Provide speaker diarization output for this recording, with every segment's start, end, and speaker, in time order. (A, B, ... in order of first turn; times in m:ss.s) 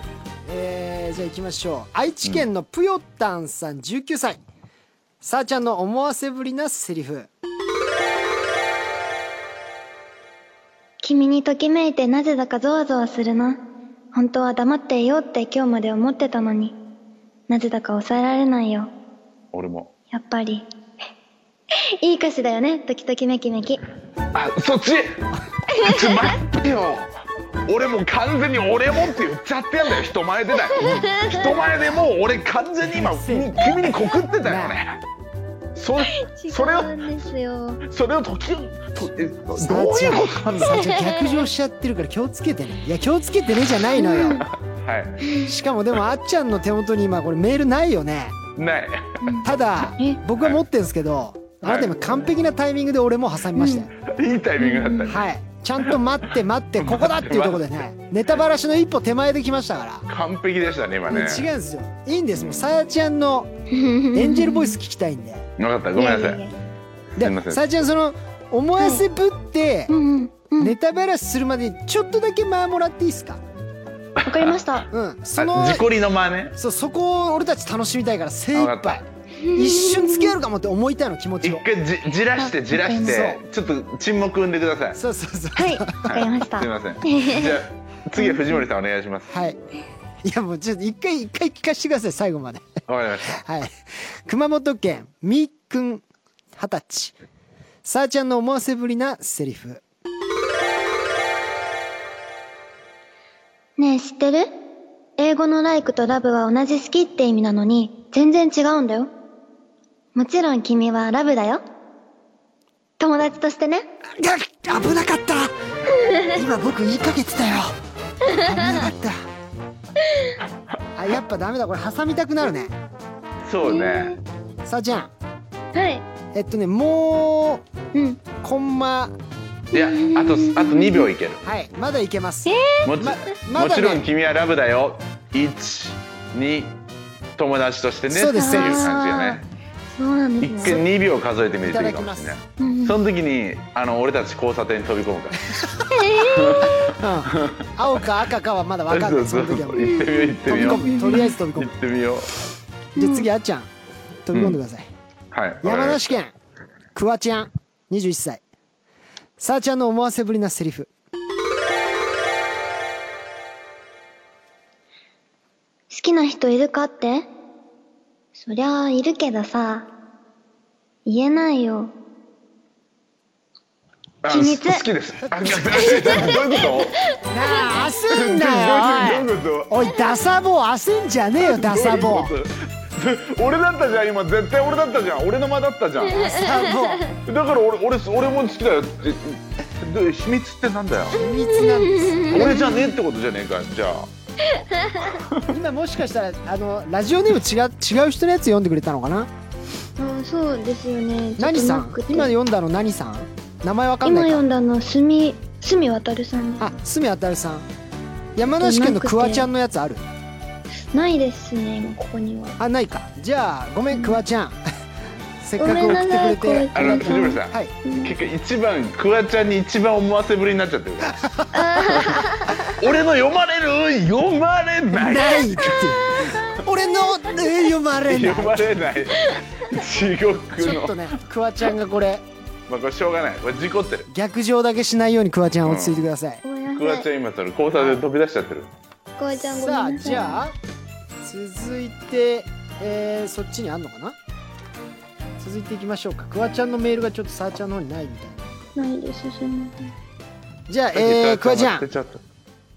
0:00.4-0:04.4 A
0:05.2-0:07.3 A
0:11.0-0:13.6 B
0:14.1-0:16.8 B
0:17.5-0:18.9 B
0:19.5-0:19.9 C
0:20.1-0:20.6 B
0:21.7-0:23.8 B
0:24.3-0:35.0 C
0:25.8-0:26.4 B
0:30.7-0:31.6 B
0:30.8-0:31.1 A
0:32.9-0:33.9 A
0:34.4-0:34.8 A
0:35.8-0:37.1 C
0:36.1-0:37.8 B
0:37.8-0:40.8 C
0:39.5-0:44.5 A
0:40.6-0:41.3 B
0:44.0-0:44.4 B
0:44.2-0:45.2 C
0:45.2-0:45.5 B
0:45.4-0:48.4 A
0:48.6-0:49.4 C
0:49.2-0:50.2 B
0:49.4-0:53.9 A
0:51.6-0:51.9 C
0:53.6-0:53.9 B
0:54.0-0:55.2 C
0:54.6-0:55.1 B
0:55.1-1:00.0 A
0:56.8-0:57.8 C
1:00.1-1:01.5 C
1:01.1-1:03.5 A
1:02.3-1:02.7 C
1:03.7-1:04.8 B
1:04.1-1:05.4 A
1:05.6-1:06.4 C
1:06.0-1:06.5 B
1:07.2-1:07.6 C
1:07.2-1:09.9 A
1:09.9-1:10.7 B
1:10.6-1:13.4 A
1:14.2-1:14.6 C
1:14.2-1:14.9 B
1:14.9-1:15.8 A
1:15.4-1:16.6 C
1:16.6-1:21.6 A
1:18.5-1:19.0 C
1:19.4-1:20.3 B
1:21.4-1:25.0 C
1:22.4-1:23.1 B
1:23.0-1:23.4 A
1:24.9-1:26.2 A
1:25.6-1:27.6 B
1:26.0-1:29.3 C
1:28.2-1:28.6 B
1:29.3-1:29.6 A
1:30.2-1:32.7 A
1:32.9-1:33.4 C
1:33.3-1:36.0 A
1:36.6-1:37.2 A
1:37.8-1:39.8 A
1:43.8-1:44.5 B
1:45.2-1:49.1 B
1:50.1-1:51.6 B
1:53.0-1:53.9 B
1:54.2-1:55.5 A
1:56.2-1:57.8 A
1:58.3-1:58.8 B
1:58.3-1:59.2 A
2:01.0-2:02.7 A
2:03.4-2:04.2 C
2:03.6-2:04.2 B
2:04.6-2:05.1 A
2:05.7-2:06.0 B
2:06.3-2:07.6 A
2:07.9-2:08.2 B
2:08.4-2:09.1 A
2:09.7-2:11.4 C
2:09.7-2:11.1 B
2:11.4-2:14.0 A
2:12.4-2:12.8 B
2:12.8-2:16.8 C
2:17.4-2:19.4 C
2:18.1-2:18.9 A
2:18.3-2:19.4 B
2:19.9-2:20.8 B
2:20.4-2:25.6 C
2:21.6-2:22.4 A
2:22.6-2:23.0 B
2:25.6-2:26.0 A
2:25.9-2:26.6 B
2:26.2-2:27.6 C
2:26.8-2:31.8 A
2:28.9-2:32.4 C
2:29.8-2:31.3 B
2:33.0-2:33.3 B
2:33.0-2:33.7 A
2:34.2-2:34.9 A
2:34.3-2:34.6 C
2:35.3-2:36.1 C
2:35.6-2:36.3 A
2:36.9-2:38.4 A
2:39.4-2:40.9 A
2:45.9-2:47.3 B
2:48.3-2:49.9 B
2:51.0-2:51.9 B
2:54.2-2:57.0 C
2:54.3-2:54.8 B
2:55.5-2:56.3 A
2:55.8-2:57.7 B
2:57.3-3:02.3 A
2:58.1-2:59.7 C
3:01.4-3:06.5 C
3:06.1-3:07.1 B
3:06.2-3:07.0 A
3:07.2-3:11.2 C
3:11.1-3:12.6 A
3:11.2-3:13.0 B
3:12.3-3:14.1 C
3:14.5-3:15.2 B
3:15.2-3:15.5 C
3:15.5-3:19.3 A
3:20.0-3:22.3 B
3:21.4-3:24.4 A
3:24.0-3:26.7 B
3:26.6-3:27.7 A
3:28.4-3:30.0 A
3:28.6-3:29.4 B
3:30.9-3:32.6 B
3:32.6-3:34.6 A
3:33.9-3:34.2 B
3:35.4-3:37.7 A
3:35.6-3:38.1 B
3:36.7-3:41.2 C
3:41.0-3:41.7 A
3:41.5-3:42.7 B
3:42.2-3:46.4 C
3:44.9-3:48.9 A
3:48.1-3:51.1 C
3:50.6-3:52.2 A
3:52.7-3:54.1 C
3:54.1-3:56.4 A
3:55.6-3:56.0 C
3:56.4-3:57.1 B
3:56.7-3:58.7 C
3:57.7-3:58.0 A
3:59.2-4:00.4 B
3:59.3-4:00.5 A
4:01.2-4:04.2 A
4:05.4-4:08.4 A
4:08.8-4:09.9 B
4:10.7-4:11.8 A
4:10.9-4:12.2 C